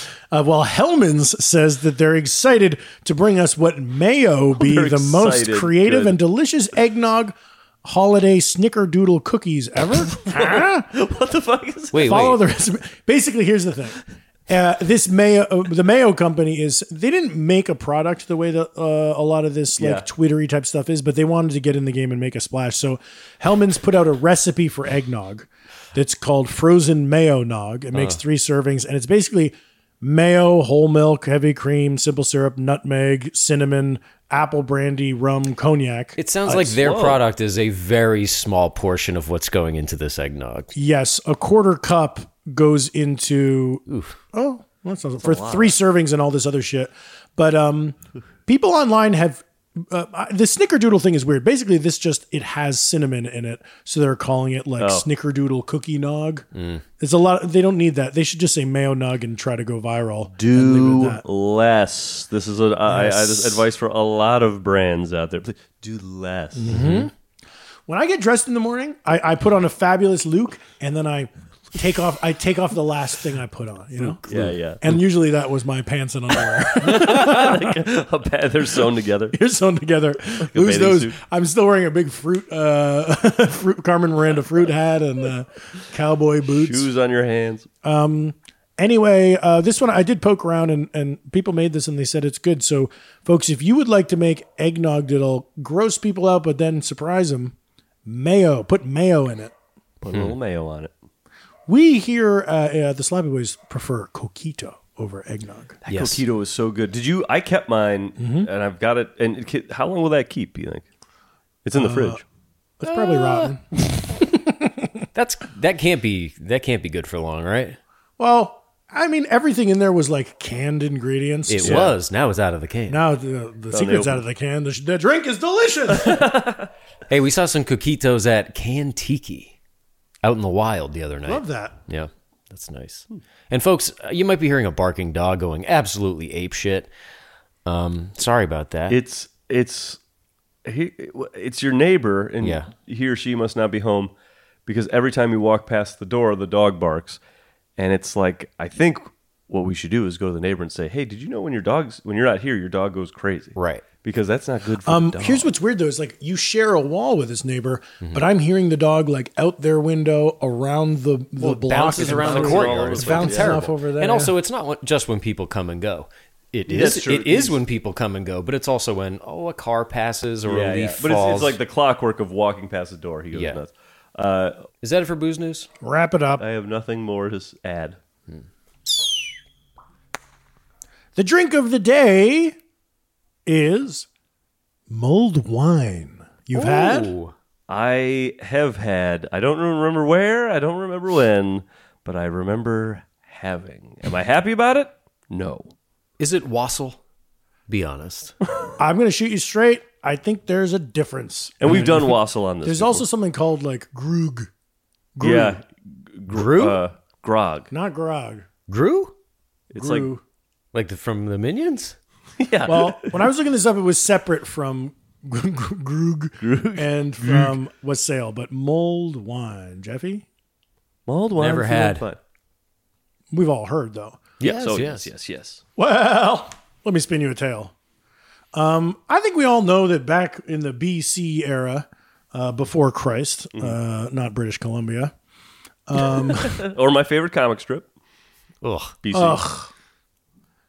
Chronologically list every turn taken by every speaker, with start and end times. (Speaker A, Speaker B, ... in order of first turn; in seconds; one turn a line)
Speaker A: 0.3-10.9
Speaker B: 4.5-6.2
Speaker B: 10.1-12.3
Speaker C: 11.9-12.4
Speaker A: 12.0-36.8
Speaker B: 19.8-20.1
Speaker C: 27.9-28.2
Speaker C: 36.2-40.7
Speaker B: 36.8-37.2
Speaker A: 40.8-56.5
Speaker C: 43.9-44.2
Speaker B: 45.2-45.8
Speaker B: 54.8-55.0
Speaker C: 56.5-56.8
Speaker A: 57.0-61.2
Speaker B: 60.4-66.8
Speaker A: 62.9-63.6
Speaker A: 66.6-67.1
Speaker C: 66.7-67.1
Speaker A: 67.9-77.8
Speaker B: 74.3-74.9
Speaker B: 76.8-79.4
Speaker A: 79.3-86.9
Speaker B: 80.4-81.2
Speaker B: 86.5-87.7
Speaker A: 87.8-97.5
Speaker A: 98.1-99.5
Speaker B: 100.0-100.9
Speaker A: 101.7-105.8
Speaker C: 105.9-106.2
Speaker B: 105.9-110.8
Speaker A: 108.2-108.5
Speaker B: 111.7-112.2
Speaker A: 111.7-112.2
Speaker A: 112.8-115.0
Speaker C: 112.8-113.5
Speaker C: 115.1-117.8
Speaker A: 118.2-121.9
Speaker C: 121.5-123.0
Speaker B: 121.6-121.9
Speaker A: 122.9-126.3
Speaker B: 123.7-124.2
Speaker B: 125.9-126.7
Speaker C: 127.1-129.6
Speaker C: 130.2-136.9
Speaker A: 131.3-131.8
Speaker C: 137.7-139.0
Speaker B: 138.9-140.0
Speaker B: 140.7-144.1
Speaker C: 142.4-142.7
Speaker B: 144.7-147.2
Speaker B: 147.8-155.5
Speaker C: 153.6-153.8
Speaker A: 154.8-164.3
Speaker C: 161.4-171.6
Speaker B: 161.9-163.6
Speaker B: 166.7-167.6
Speaker B: 170.5-174.7
Speaker C: 173.3-173.6
Speaker C: 174.8-175.7
Speaker A: 175.8-176.4
Speaker B: 176.4-178.0
Speaker A: 181.2-182.6
Speaker A: 183.5-184.1
Speaker A: 184.9-187.1
Speaker C: 186.5-187.3
Speaker B: 187.7-195.7
Speaker C: 196.2-197.0
Speaker C: 197.7-198.3
Speaker A: 198.8-204.5
Speaker B: 201.6-203.1
Speaker A: 205.2-205.6
Speaker B: 205.2-207.7
Speaker C: 206.3-206.8
Speaker A: 207.7-208.5
Speaker C: 208.7-209.1
Speaker B: 209.7-210.1
Speaker A: 209.7-210.2
Speaker C: 210.7-212.0
Speaker B: 212.4-213.2
Speaker A: 212.7-220.3
Speaker B: 216.4-217.5
Speaker B: 221.1-222.2
Speaker C: 221.4-222.1
Speaker A: 223.3-224.4
Speaker C: 224.4-225.1
Speaker B: 224.4-225.6
Speaker A: 225.8-227.7
Speaker A: 228.5-235.1
Speaker A: 235.9-236.7
Speaker B: 236.2-237.9
Speaker C: 238.6-239.0
Speaker B: 239.0-239.5
Speaker A: 239.1-239.7